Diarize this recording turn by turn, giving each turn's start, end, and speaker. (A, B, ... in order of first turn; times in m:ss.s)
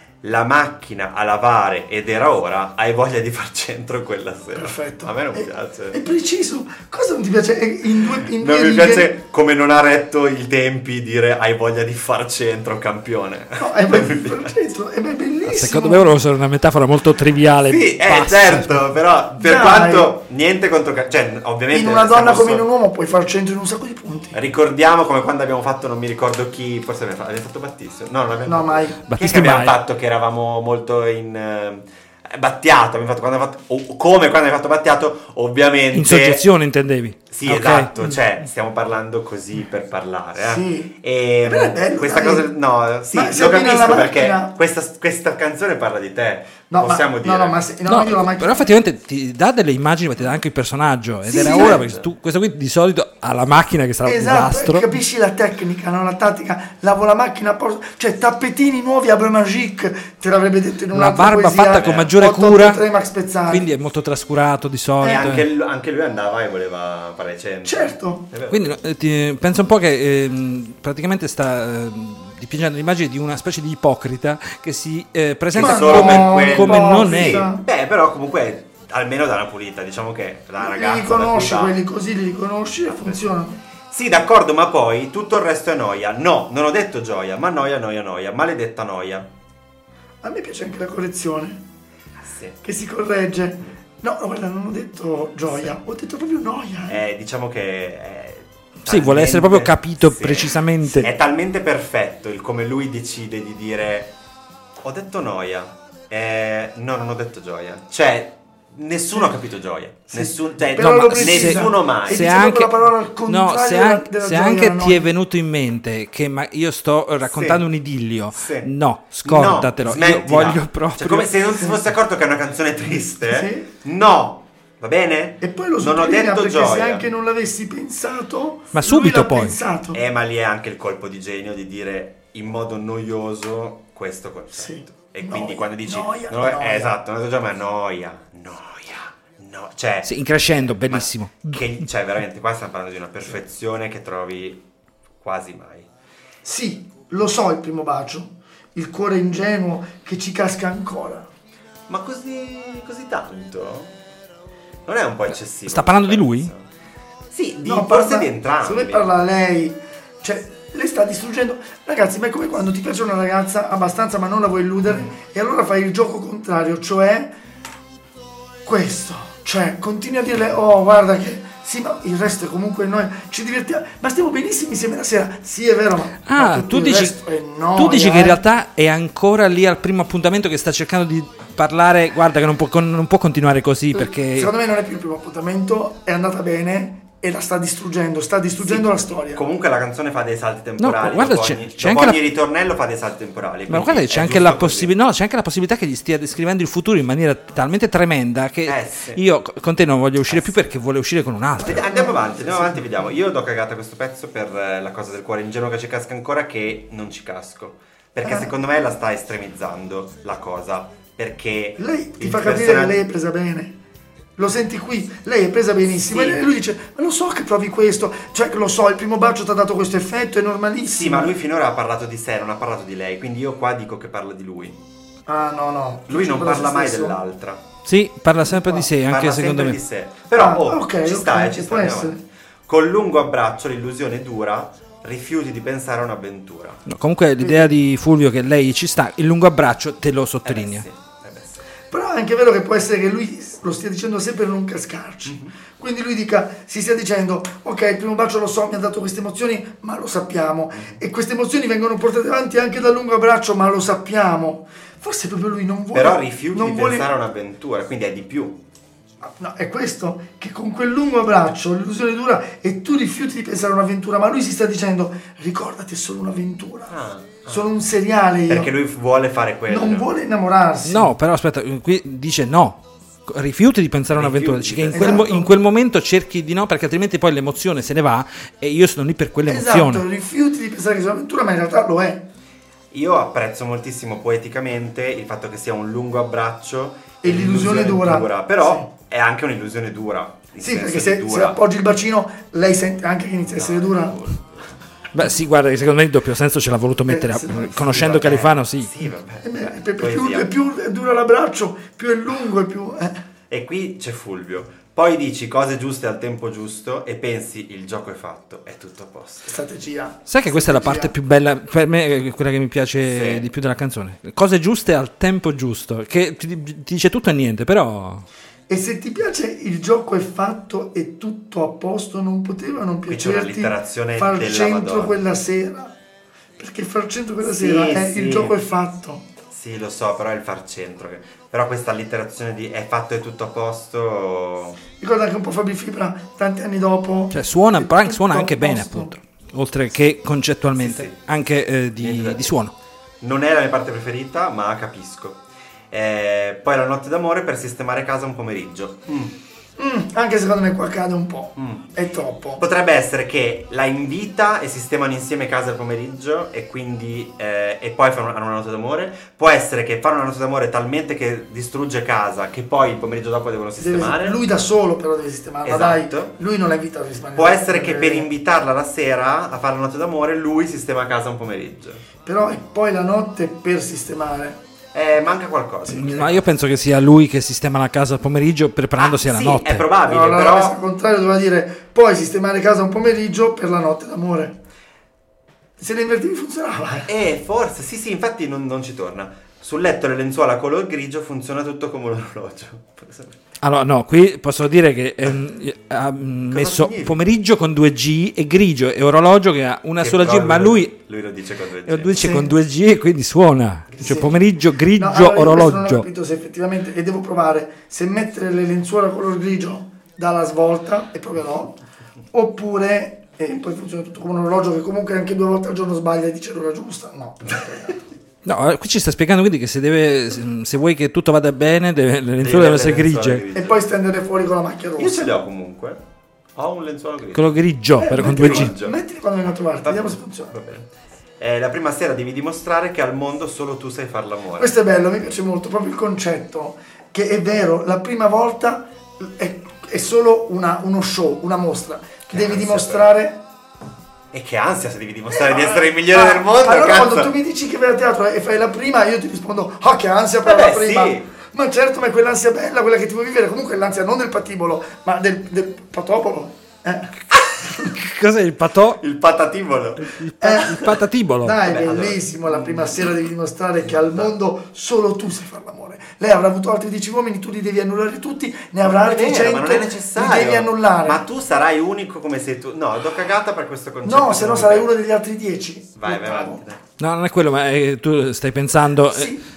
0:00.2-0:06.0 A
0:04.6-0:09.2 B
0:08.1-0:14.5 A
0:13.6-0:16.1 B
0:15.4-0:18.9 C
0:17.6-0:22.6 A
0:19.4-0:20.1 B
0:21.7-0:24.4 B
0:24.3-0:36.4 A
0:28.5-0:29.0 B
0:29.1-0:29.8 C
0:35.9-0:37.9 C
0:37.3-0:47.6 A
0:40.4-0:42.6 B
0:43.1-0:44.5 B
0:46.7-0:48.7 B
0:47.9-0:54.9 C
0:51.3-0:51.8 B
0:51.3-0:52.1 A
0:54.0-1:03.7 B
1:00.9-1:02.8 C
1:01.7-1:02.1 A
1:03.5-1:05.5 C
1:05.0-1:08.8 A
1:07.6-1:08.3 B
1:08.5-1:17.5 C
1:15.5-1:21.8 A
1:15.6-1:17.6 B
1:20.6-1:23.6 B
1:22.9-1:23.3 A
1:23.9-1:29.3 A
1:30.2-1:31.6 B
1:32.2-1:32.6 A
1:32.6-1:37.0 B
1:35.5-1:35.8 A
1:36.9-1:44.1 A
1:38.8-1:41.1 C
1:44.8-1:52.3 A
1:50.1-1:55.1 B
1:50.8-1:52.7 C
1:53.2-2:01.3 C
1:57.2-1:57.7 A
1:58.3-1:58.7 A
1:59.2-2:07.0 A
2:03.3-2:03.7 B
2:05.4-2:10.0 B
2:08.7-2:09.6 C
2:09.9-2:20.1 A
2:14.6-2:17.0 B
2:20.0-2:21.6 C
2:20.8-2:24.6 A
2:25.2-2:25.9 A
2:26.4-2:31.3 B
2:31.9-2:33.9 A
2:34.9-2:36.6 A
2:35.7-2:36.5 C
2:37.3-2:39.1 A
2:37.6-2:47.3 B
2:48.6-2:58.4 B
2:56.2-2:57.2 C
2:57.8-3:04.5 C
3:04.0-3:09.4 B
3:08.6-3:14.9 A
3:10.8-3:12.2 C
3:13.7-3:21.9 C
3:18.7-3:19.2 A
3:20.3-3:20.6 A
3:21.6-3:33.0 A
3:21.6-3:23.2 B
3:28.2-3:28.5 B
3:31.8-3:33.8 B
3:34.4-3:41.3 B
3:36.1-3:36.5 A
3:40.9-3:44.8 A
3:45.3-3:47.2 B
3:46.1-3:47.6 A
3:47.8-3:49.8 C
3:48.5-3:48.9 B
3:49.0-3:56.8 A
3:50.3-3:52.2 B
3:56.9-4:00.8 C
3:57.4-3:57.7 B
4:00.4-4:01.6 A
4:01.9-4:17.1 B
4:05.3-4:05.5 A
4:10.7-4:11.0 A
4:15.9-4:18.6 A
4:19.2-4:26.9 B
4:26.9-4:27.7 A
4:27.5-4:28.7 B
4:28.5-4:30.1 A
4:29.7-4:31.1 B
4:30.8-4:40.1 C
4:34.1-4:35.3 A
4:34.9-4:35.5 B
4:39.5-4:42.3 B
4:42.9-4:51.6 A
4:47.2-4:48.9 B
4:50.6-4:54.2 B
4:53.6-4:54.5 A
4:55.1-4:58.9 C
4:57.1-4:58.1 B
4:57.9-5:00.5 A
4:59.4-5:03.2 B
5:03.5-5:09.5 A
5:09.5-5:11.2 B
5:10.3-5:18.2 C
5:13.1-5:13.5 A
5:18.7-5:25.9 B
5:23.1-5:25.2 A
5:26.6-5:29.2 B
5:27.4-5:28.6 A
5:29.5-5:34.8 A
5:35.0-5:39.1 B
5:37.3-5:42.7 C
5:40.8-5:41.2 A
5:42.0-5:42.6 A
5:43.2-5:49.4 A
5:49.8-5:52.6 B
5:51.6-5:51.9 A
5:52.6-6:04.4 A
6:03.8-6:08.3 B
6:05.6-6:06.4 A
6:07.4-6:12.0 A
6:12.2-6:14.6 B
6:14.9-6:16.4 A
6:15.9-6:19.9 C
6:19.0-6:20.8 A
6:20.1-6:24.6 B
6:25.8-6:27.1 B
6:27.1-6:33.4 A
6:33.6-6:41.0 C
6:36.5-6:37.2 A
6:40.0-6:42.2 A
6:41.8-6:46.1 C
6:42.2-6:42.5 B
6:44.0-6:44.4 B
6:45.0-6:51.8 B
6:52.3-6:58.0 B
6:58.4-7:03.4 C
7:02.4-7:03.8 A
7:03.5-7:05.3 B
7:05.0-7:06.0 A
7:06.6-7:09.0 A
7:07.3-7:08.8 C
7:08.0-7:10.5 B
7:09.8-7:10.9 A
7:11.4-7:14.7 A
7:14.6-7:23.4 B
7:22.3-7:23.1 A
7:24.3-7:27.3 A
7:25.3-7:37.8 B
7:30.4-7:31.3 A
7:37.7-7:39.0 C
7:39.0-7:40.8 A
7:40.0-7:41.6 C
7:40.4-7:40.8 B
7:41.4-7:51.2 B
7:41.6-7:43.0 A
7:43.8-7:44.3 A
7:48.8-7:54.9 A
7:54.0-7:56.6 B
7:56.0-7:56.8 A
7:57.0-7:59.4 C
7:59.1-7:59.4 B